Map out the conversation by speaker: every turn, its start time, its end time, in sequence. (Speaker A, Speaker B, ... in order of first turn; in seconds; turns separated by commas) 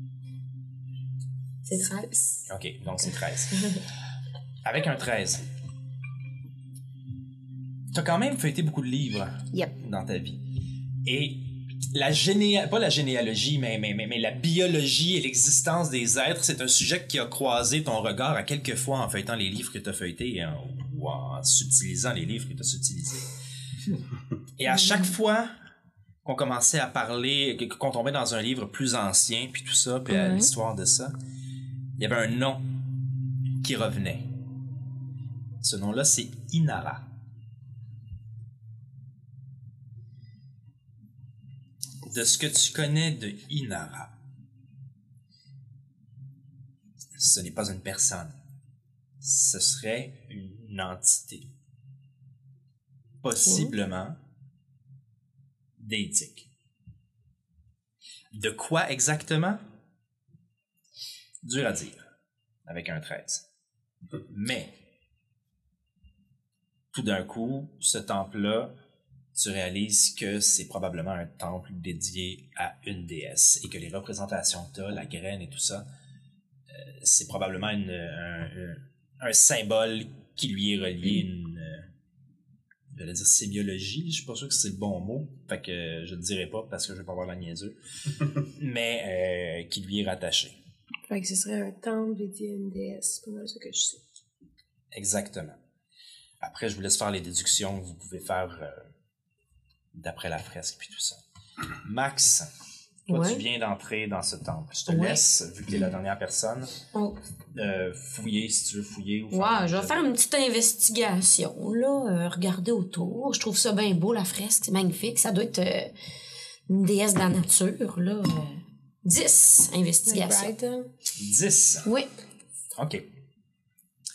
Speaker A: 1.6-2.1, Speaker B: 1.8-2.2, Speaker C: 2.5-3.7, Speaker C: 4.6-5.4, Speaker C: 7.9-10.4, Speaker C: 11.0-23.3, Speaker C: 24.6-25.5, Speaker A: 24.7-25.1, Speaker C: 26.2-31.1, Speaker A: 30.1-30.5, Speaker C: 32.0-32.7, Speaker C: 33.6-34.3, Speaker C: 35.6-37.1, Speaker C: 42.1-44.1, Speaker C: 47.1-48.4, Speaker C: 49.2-51.5, Speaker C: 53.2-54.2, Speaker C: 55.8-56.5, Speaker C: 58.3-59.6, Speaker C: 61.4-62.0, Speaker C: 62.6-63.4, Speaker C: 64.3-64.7, Speaker C: 66.9-68.7, Speaker C: 69.3-75.8, Speaker C: 76.7-81.8, Speaker C: 82.9-87.8, Speaker C: 88.4-90.5, Speaker B: 91.1-94.0, Speaker C: 94.9-95.6, Speaker C: 96.4-98.8, Speaker C: 99.9-101.2, Speaker C: 101.8-102.5, Speaker A: 103.1-103.4, Speaker C: 103.1-106.7, Speaker A: 104.9-105.2, Speaker A: 106.9-107.2, Speaker C: 107.5-110.1, Speaker A: 109.3-115.9, Speaker A: 116.7-120.5, Speaker B: 120.1-120.9, Speaker C: 121.1-121.9, Speaker C: 122.7-123.0